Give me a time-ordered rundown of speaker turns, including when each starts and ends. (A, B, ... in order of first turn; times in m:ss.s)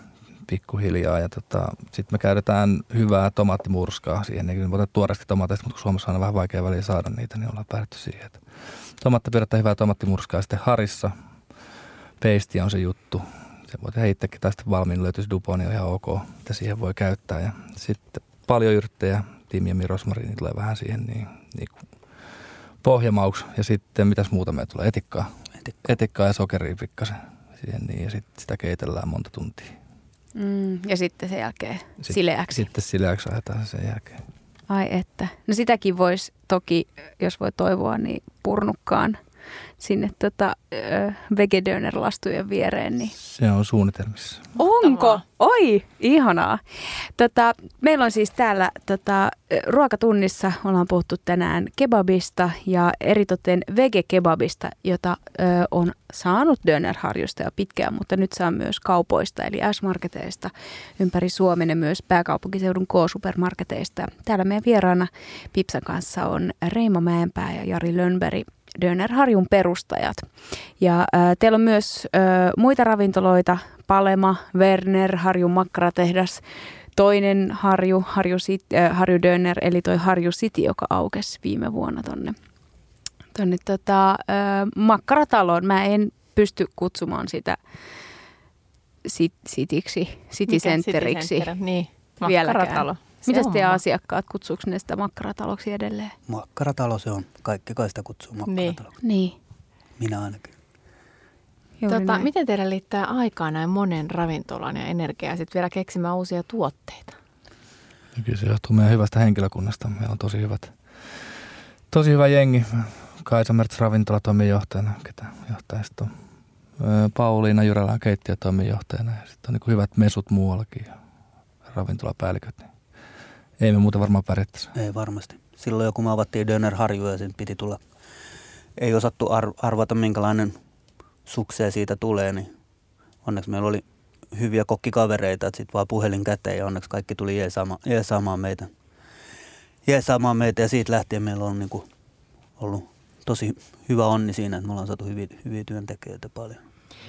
0:00.5-0:11.1 A
0:12.2-0:21.8 A
0:22.8-0:25.3 A
0:25.8-0:29.8 A
0:30.4-0:32.6 B
0:32.0-0:34.2 A
0:34.7-0:39.2 B
0:39.8-0:43.1 B
0:43.2-0:44.5 A
0:44.6-1:10.3 B
0:44.8-0:45.2 C
1:10.8-1:16.4 B
1:17.0-1:22.4 B
1:23.3-1:27.6 B
1:29.0-1:31.5 B
1:30.5-1:33.8 C
1:32.2-1:36.2 B
1:36.3-1:39.0 D
1:38.5-1:38.8 C
1:39.0-1:39.4 B
1:40.0-1:40.5 D
1:41.8-1:42.3 B
1:41.9-1:47.2 C
1:48.2-1:56.1 A
1:56.8-2:01.0 A
2:01.7-2:02.7 A
2:03.6-2:04.7 A
2:04.8-2:07.8 D
2:08.8-2:10.6 D
2:11.3-2:12.5 D
2:13.2-2:18.7 D
2:19.9-2:21.9 D
2:22.6-2:26.6 D